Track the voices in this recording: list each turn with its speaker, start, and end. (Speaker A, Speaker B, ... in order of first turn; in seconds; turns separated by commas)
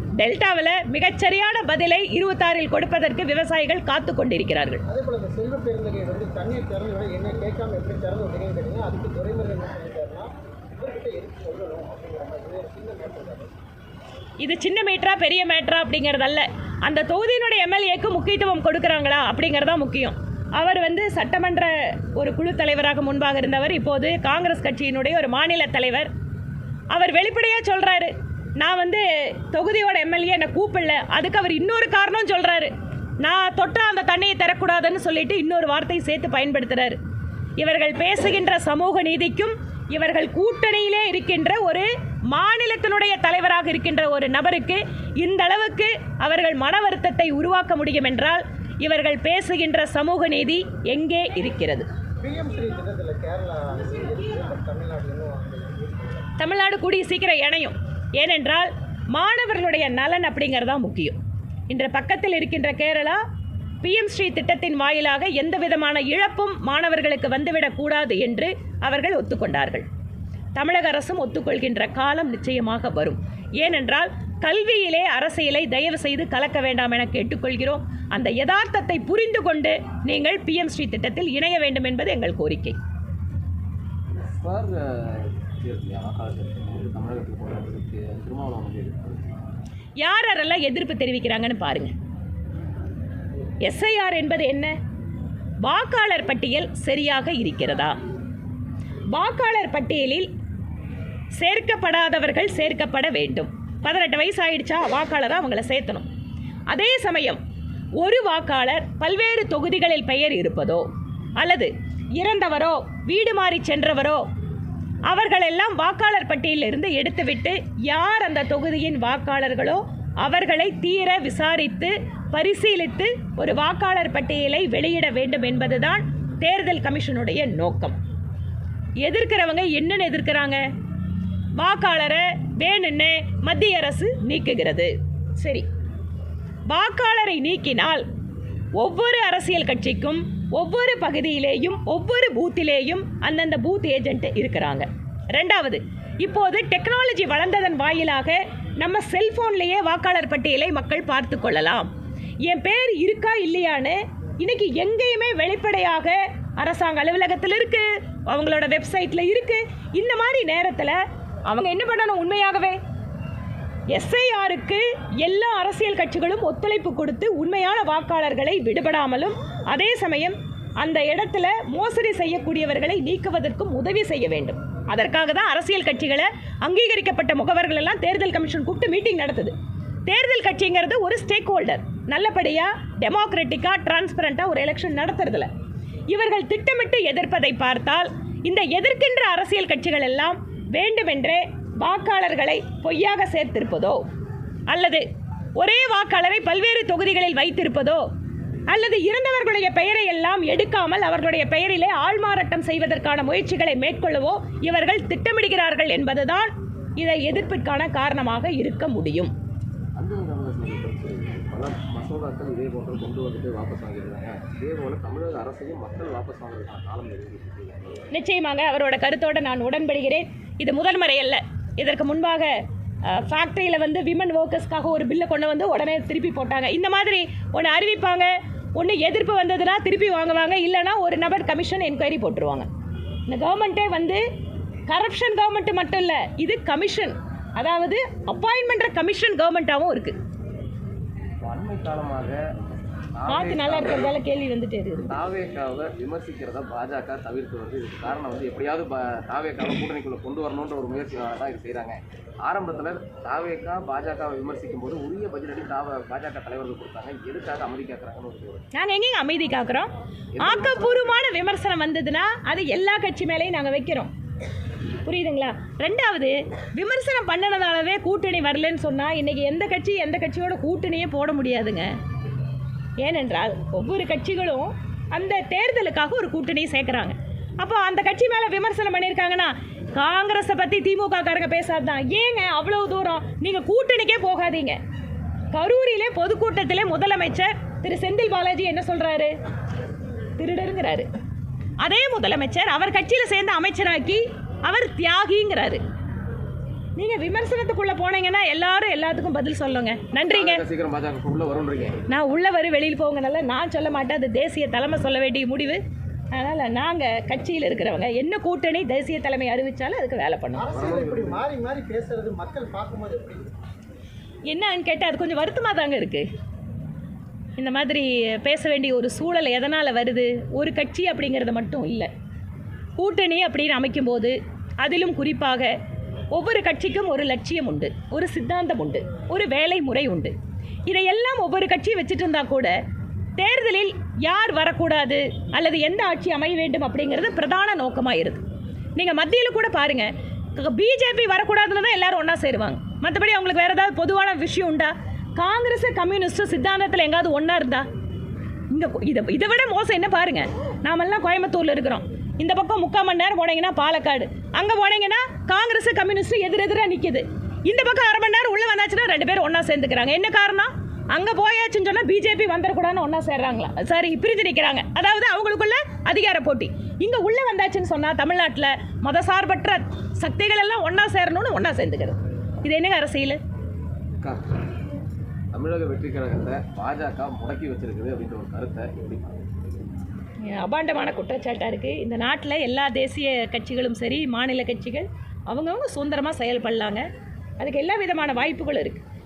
Speaker A: 0.2-4.8, Speaker B: 4.9-13.5, Speaker A: 14.4-26.1, Speaker A: 26.9-32.7, Speaker A: 33.2-37.0, Speaker A: 37.6-51.9, Speaker B: 52.2-56.3, Speaker A: 56.4-61.2, Speaker A: 61.7-63.2, Speaker A: 63.8-69.9, Speaker A: 70.5-82.8, Speaker C: 84.2-89.4, Speaker A: 90.0-91.9, Speaker A: 93.6-94.7, Speaker A: 95.6-98.0, Speaker A: 99.1-100.3, Speaker A: 101.3-106.1, Speaker A: 106.7-107.4, Speaker A: 108.0-110.8, Speaker A: 111.4-114.2, Speaker A: 115.1-128.0, Speaker A: 129.0-130.6, Speaker A: 131.6-135.7, Speaker A: 136.7-138.0, Speaker A: 138.8-151.9, Speaker A: 152.4-162.8, Speaker A: 163.9-179.5, Speaker A: 180.1-185.5, Speaker A: 186.1-194.0, Speaker A: 194.7-195.0, Speaker A: 195.6-198.0, Speaker A: 198.7-209.3, Speaker C: 210.0-218.1, Speaker A: 218.1-222.5, Speaker A: 223.1-232.7, Speaker A: 233.3-234.2, Speaker A: 234.9-240.2, Speaker C: 241.4-242.4, Speaker C: 243.1-244.2, Speaker A: 243.3-245.1, Speaker C: 245.1-258.6, Speaker A: 258.7-264.1, Speaker C: 260.4-261.1, Speaker A: 265.0-271.9, Speaker A: 273.0-284.8, Speaker A: 285.5-289.3, Speaker A: 290.4-291.1, Speaker A: 291.8-295.8, Speaker A: 297.0-300.6, Speaker C: 300.3-302.0, Speaker A: 302.1-305.8, Speaker A: 306.3-310.6, Speaker B: 310.5-313.5, Speaker C: 310.7-311.5, Speaker A: 314.5-316.2, Speaker A: 317.6-322.1, Speaker A: 323.0-325.7, Speaker A: 326.3-330.3, Speaker A: 330.9-332.7, Speaker A: 333.4-338.4, Speaker A: 339.0-347.9, Speaker A: 348.7-373.4, Speaker C: 374.2-374.5, Speaker C: 375.5-379.4, Speaker A: 380.5-387.1, Speaker A: 387.6-389.1